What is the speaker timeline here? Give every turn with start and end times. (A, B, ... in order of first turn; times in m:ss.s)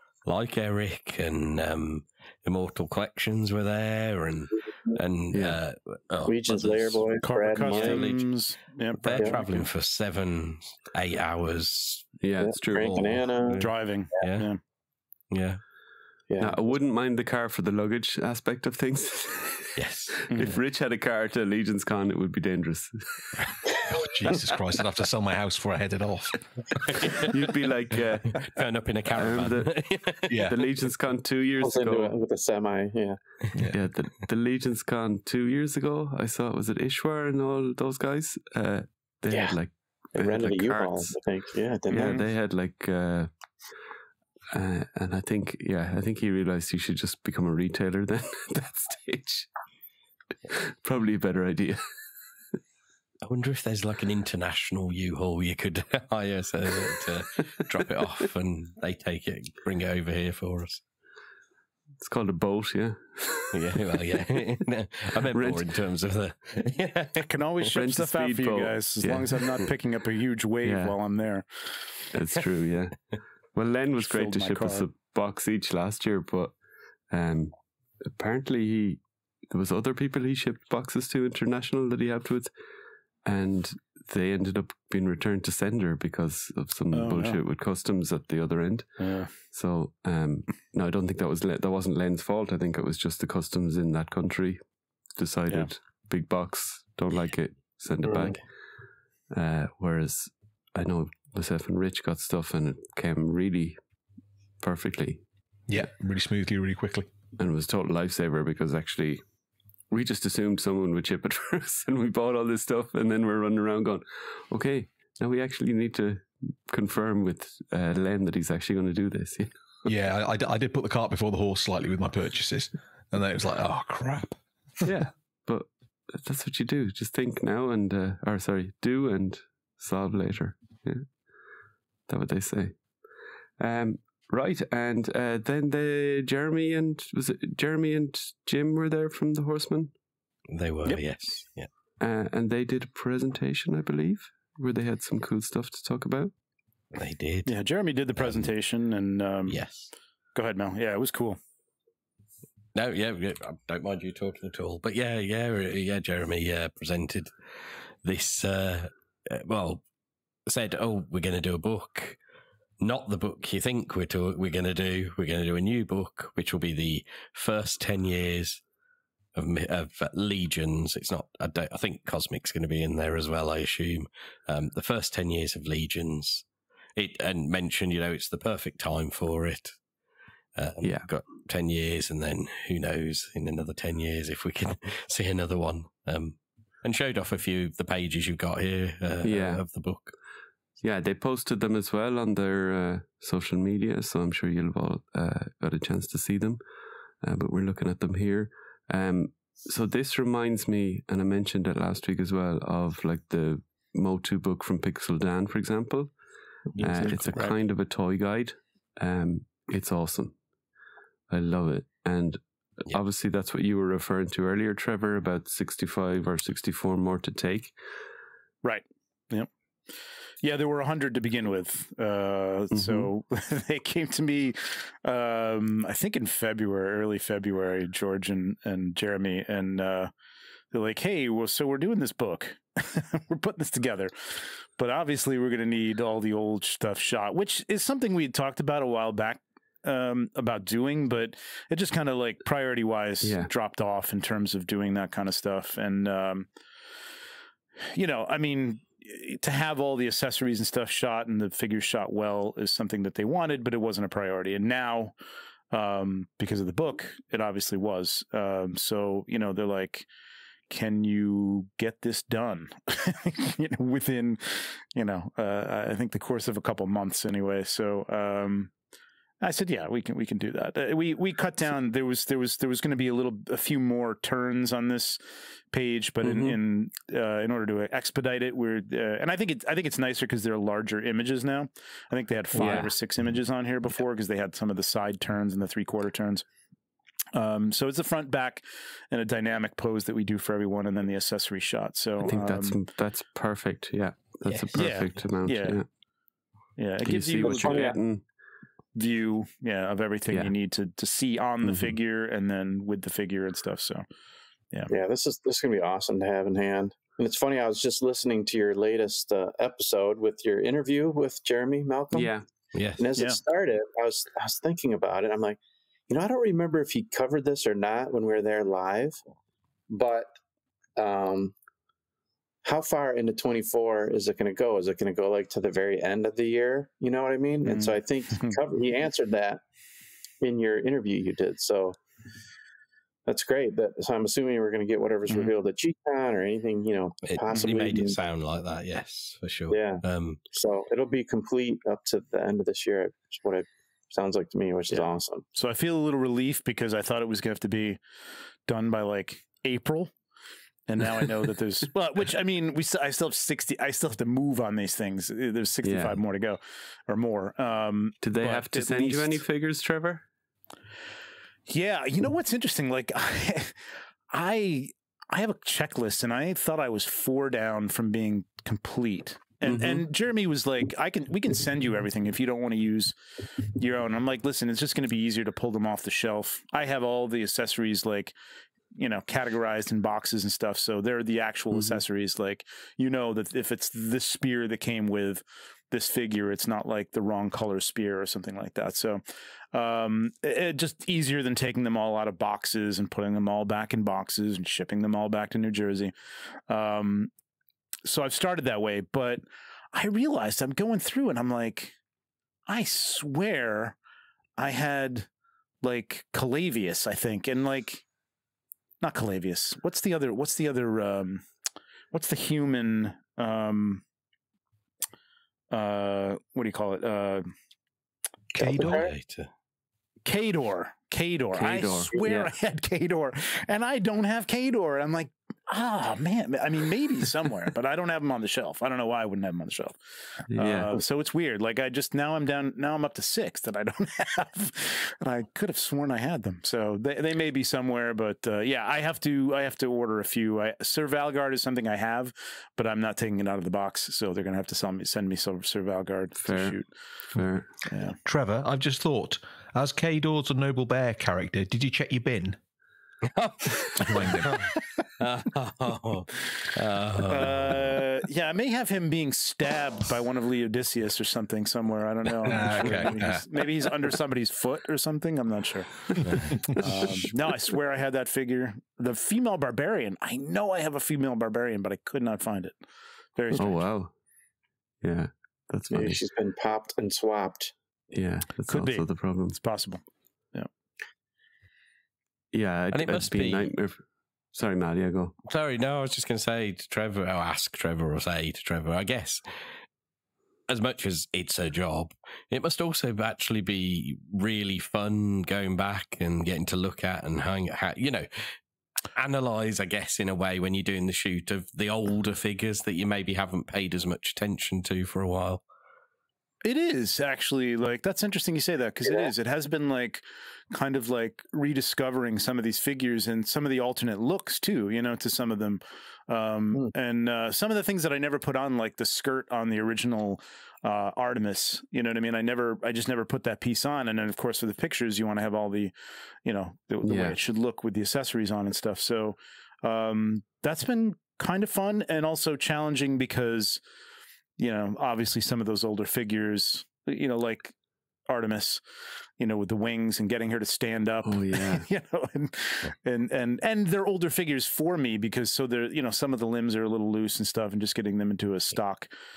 0:00.2-0:08.3 A
0:05.3-0:05.6 B
0:06.2-0:08.1 C
0:07.2-0:09.6 D
0:09.0-0:12.1 A
0:12.2-0:13.2 B
0:12.4-0:13.6 C
0:12.7-0:14.5 A
0:13.6-0:14.6 D
0:15.3-0:15.6 A
0:16.3-0:16.7 C
0:16.4-0:23.0 B
0:19.8-0:20.2 A
0:20.3-0:20.6 D
0:23.9-0:26.8 E
0:26.8-0:27.3 A
0:27.2-0:28.5 B
0:28.3-0:30.5 A
0:29.1-0:29.8 B
0:30.3-0:30.6 E
0:30.4-0:32.1 B
0:31.6-0:33.2 C
0:33.5-0:33.8 E
0:33.7-0:41.2 B
0:39.3-0:39.6 C
0:40.1-0:42.2 C
0:41.9-0:43.3 B
0:41.9-0:42.2 D
0:44.5-0:49.5 B
0:50.5-0:51.8 B
0:53.2-1:00.8 A
1:02.0-1:04.4 B
1:03.5-1:07.2 A
1:05.3-1:05.6 B
1:07.2-1:12.0 D
1:07.6-1:09.7 B
1:10.6-1:11.0 B
1:12.1-1:16.5 B
1:14.0-1:14.9 D
1:17.1-1:22.5 B
1:23.2-1:34.6 B
1:26.9-1:27.4 D
1:29.0-1:29.3 D
1:35.2-1:38.4 B
1:38.0-1:38.4 C
1:39.3-1:43.8 B
1:44.6-1:45.2 B
1:45.7-1:47.1 E
1:47.4-1:49.2 B
1:49.9-1:59.5 B
1:59.8-2:04.4 E
2:04.8-2:11.1 B
2:12.1-2:12.8 B
2:13.6-2:19.9 B
2:20.5-2:21.7 A
2:22.0-2:26.3 B
2:26.9-2:27.5 A
2:27.4-2:29.6 D
2:28.2-2:28.5 A
2:29.5-2:29.9 A
2:30.3-2:31.4 D
2:32.7-2:37.3 A
2:38.0-2:39.8 A
2:40.5-2:42.2 A
2:42.8-2:48.6 A
2:49.3-2:56.4 A
2:57.0-2:59.7 A
3:00.6-3:10.1 A
3:00.8-3:01.0 B
3:09.2-3:09.6 B
3:10.8-3:16.6 B
3:17.2-3:26.1 B
3:26.8-3:27.4 A
3:26.8-3:30.3 B
3:26.9-3:27.5 D
3:31.3-3:37.7 B
3:38.6-3:39.5 D
3:40.4-3:50.1 D
3:42.7-3:43.1 B
3:50.7-4:06.5 D
4:03.2-4:03.5 B
4:07.9-4:15.1 D
4:15.7-4:20.1 D
4:20.7-4:28.7 D
4:29.4-4:35.2 D
4:35.7-4:46.4 D
4:36.2-4:36.6 B
4:42.5-4:42.9 B
4:47.3-4:52.8 D
4:52.2-4:55.8 B
4:54.5-4:54.8 A
4:54.7-4:55.8 D
4:56.8-4:58.0 D
4:57.0-4:58.2 B
4:57.4-4:57.9 C
4:58.9-5:04.0 D
5:01.6-5:01.9 B
5:04.9-5:12.3 C
5:12.1-5:12.4 B
5:12.7-5:13.0 A
5:13.0-5:19.2 C
5:19.9-5:20.3 C
5:21.0-5:21.5 C
5:22.6-5:29.6 C
5:27.6-5:28.5 D
5:30.4-5:32.0 C
5:33.3-5:38.2 C
5:35.3-5:35.5 D
5:37.2-5:40.4 A
5:39.7-5:45.4 C
5:44.9-5:48.0 D
5:48.7-5:50.1 D
5:50.9-5:59.4 D
5:55.8-5:56.2 B
5:58.2-6:00.2 B
6:01.7-6:13.1 D
6:09.6-6:10.0 B
6:13.8-6:18.3 D
6:18.9-6:29.2 D
6:21.7-6:22.0 B
6:29.7-6:36.1 D
6:36.7-6:37.3 D
6:38.0-6:41.9 D
6:42.7-6:44.0 D
6:44.6-6:45.3 D
6:45.8-6:48.0 D
6:49.0-6:51.4 D
6:52.1-6:54.0 D
6:55.7-6:57.5 D
6:58.5-6:59.1 E
6:58.6-6:59.1 C
6:58.8-6:59.5 A
7:00.2-7:26.9 D
7:01.5-7:02.1 B
7:02.1-7:02.5 C
7:10.5-7:10.9 B
7:26.4-7:26.8 B
7:27.3-7:27.7 B
7:27.9-7:28.2 D
7:28.2-7:32.6 E
7:33.3-7:38.0 A
7:34.0-7:34.6 E
7:37.2-7:46.0 D
7:42.4-7:43.4 E
7:42.6-7:43.1 A
7:46.2-7:46.8 A
7:46.6-7:52.8 D
7:53.4-7:53.8 D
7:53.6-7:54.1 B
7:55.0-7:56.2 B
7:55.9-7:57.7 C
7:58.1-7:59.6 B
7:58.7-8:00.0 D
8:02.5-8:04.0 B
8:02.9-8:03.7 A
8:04.5-8:05.3 B
8:05.5-8:09.4 A
8:10.7-8:18.5 A
8:19.1-8:25.6 A
8:26.6-8:45.9 D
8:46.4-8:53.8 D
8:47.0-8:47.4 B
8:54.6-8:57.7 D
8:58.3-8:58.8 D
8:59.4-9:09.1 D
9:01.2-9:01.9 B